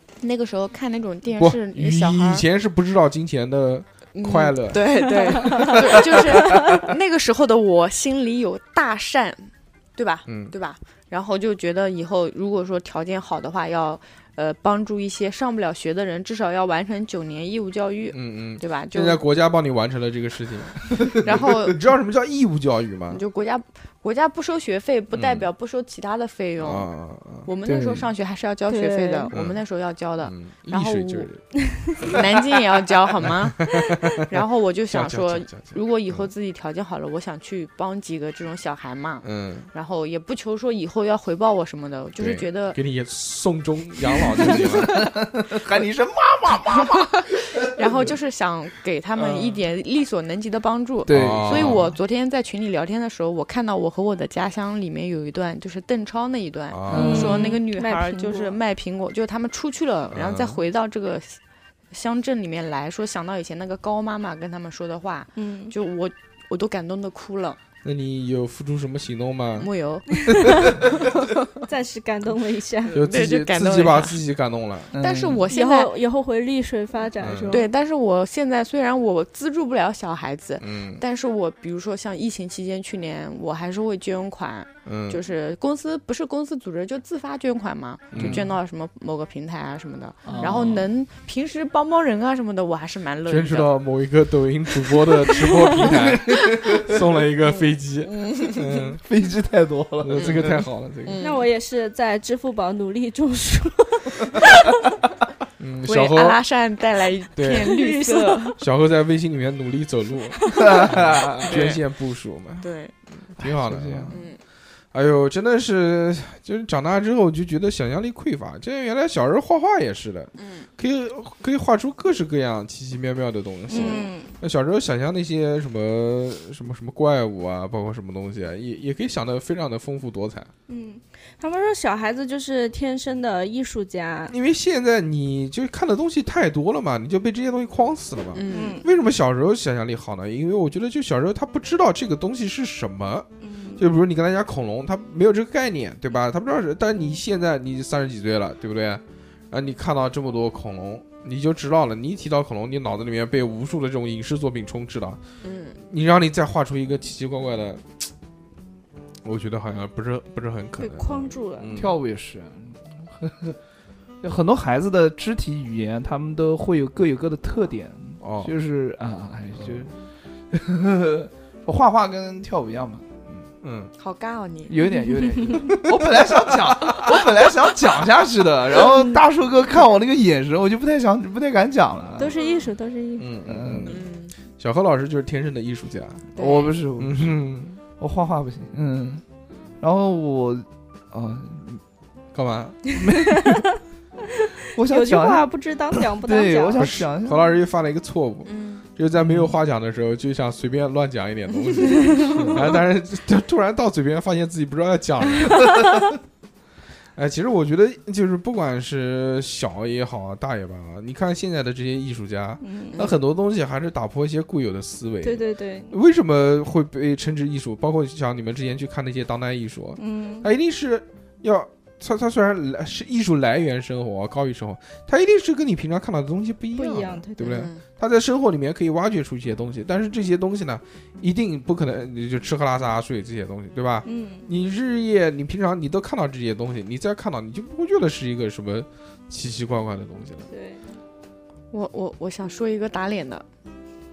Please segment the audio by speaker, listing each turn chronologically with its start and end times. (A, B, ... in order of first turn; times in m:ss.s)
0:00.2-0:02.4 A
0:01.4-0:04.8 B
0:04.2-0:19.2 A
0:05.0-0:05.8 C
0:06.4-0:06.8 C
0:10.3-0:10.5 B
0:18.1-0:23.2 B
0:21.2-0:21.8 A
0:23.1-0:26.9 A
0:25.1-0:25.5 B
0:26.6-0:27.5 B
0:27.5-0:31.3 A
0:27.7-0:28.1 D
0:28.7-0:29.3 C
0:29.3-0:29.6 B
0:30.2-0:32.2 B
0:32.0-0:42.8 A
0:33.2-0:34.2 B
0:34.9-0:36.3 B
0:39.2-0:39.7 B
0:42.2-0:45.1 B
0:44.4-0:48.1 D
0:47.2-1:01.4 A
0:49.2-0:49.5 D
0:51.1-0:51.8 D
0:51.1-0:51.9 B
0:56.7-0:57.4 B
0:56.9-0:57.5 D
0:56.9-0:58.6 C
1:00.1-1:00.6 B
1:01.9-1:07.6 A
1:05.4-1:05.7 C
1:07.8-1:09.7 B
1:09.6-1:11.6 A
1:10.2-1:10.8 C
1:11.7-1:13.0 C
1:12.9-1:14.2 A
1:12.9-1:14.9 B
1:14.9-1:15.4 D
1:15.0-1:15.9 A
1:15.5-1:17.7 C
1:17.2-1:17.6 B
1:17.5-1:33.7 A
1:20.6-1:21.0 B
1:24.8-1:25.2 B
1:28.1-1:28.5 B
1:28.1-1:28.5 D
1:30.2-1:30.9 D
1:33.3-1:39.0 B
1:35.8-1:37.0 D
1:37.5-1:38.8 A
1:39.0-1:40.6 D
1:40.0-1:41.2 B
1:40.2-1:40.5 A
1:41.0-1:41.5 A
1:41.2-1:44.8 C
1:45.6-1:46.4 B
1:45.8-1:48.6 A
1:47.4-1:47.8 B
1:47.5-1:48.6 C
1:48.6-1:52.7 B
1:50.5-1:51.7 D
1:51.5-1:51.8 A
1:52.6-1:52.9 A
1:53.2-1:54.2 B
1:53.4-1:54.2 D
1:54.1-1:54.4 A
1:54.9-2:10.5 B
2:00.4-2:00.7 A
2:03.7-2:04.3 C
2:03.7-2:04.1 A
2:10.7-2:14.3 C
2:14.3-2:35.2 B
2:18.3-2:18.8 A
2:18.5-2:18.8 C
2:23.4-2:23.8 C
2:35.4-2:35.8 A
2:35.9-2:38.1 B
2:39.2-2:42.0 B
2:40.8-2:41.7 C
2:41.7-2:43.6 D
2:44.2-2:49.9 D
2:48.2-2:48.5 B
2:50.5-2:53.4 D
2:53.6-2:53.9 B
2:54.0-2:54.8 A
2:54.7-3:02.4 D
2:54.9-2:55.7 C
2:56.6-2:57.0 B
2:58.9-2:59.2 C
3:02.2-3:03.3 C
3:03.2-3:04.0 B
3:03.4-3:04.0 D
3:03.9-3:04.3 A
3:04.6-3:06.3 B
3:06.4-3:06.8 A
3:06.4-3:07.4 D
3:07.0-3:07.8 B
3:08.0-3:09.2 D
3:09.8-3:11.8 D
3:12.3-3:13.0 B
3:12.9-3:13.7 D
3:13.0-3:13.6 C
3:14.4-3:16.9 C
3:14.7-3:17.5 D
3:16.8-3:26.1 B
3:18.4-3:18.8 A
3:19.2-3:19.6 D
3:21.6-3:22.6 A
3:21.9-3:22.6 C
3:27.2-4:00.5 B
3:32.6-3:33.0 C
3:35.2-3:35.9 C
3:40.0-3:40.5 C
3:46.8-3:47.4 C
3:47.4-3:47.8 A
3:54.0-3:54.5 C
4:00.5-4:00.8 C
4:01.7-4:03.4 A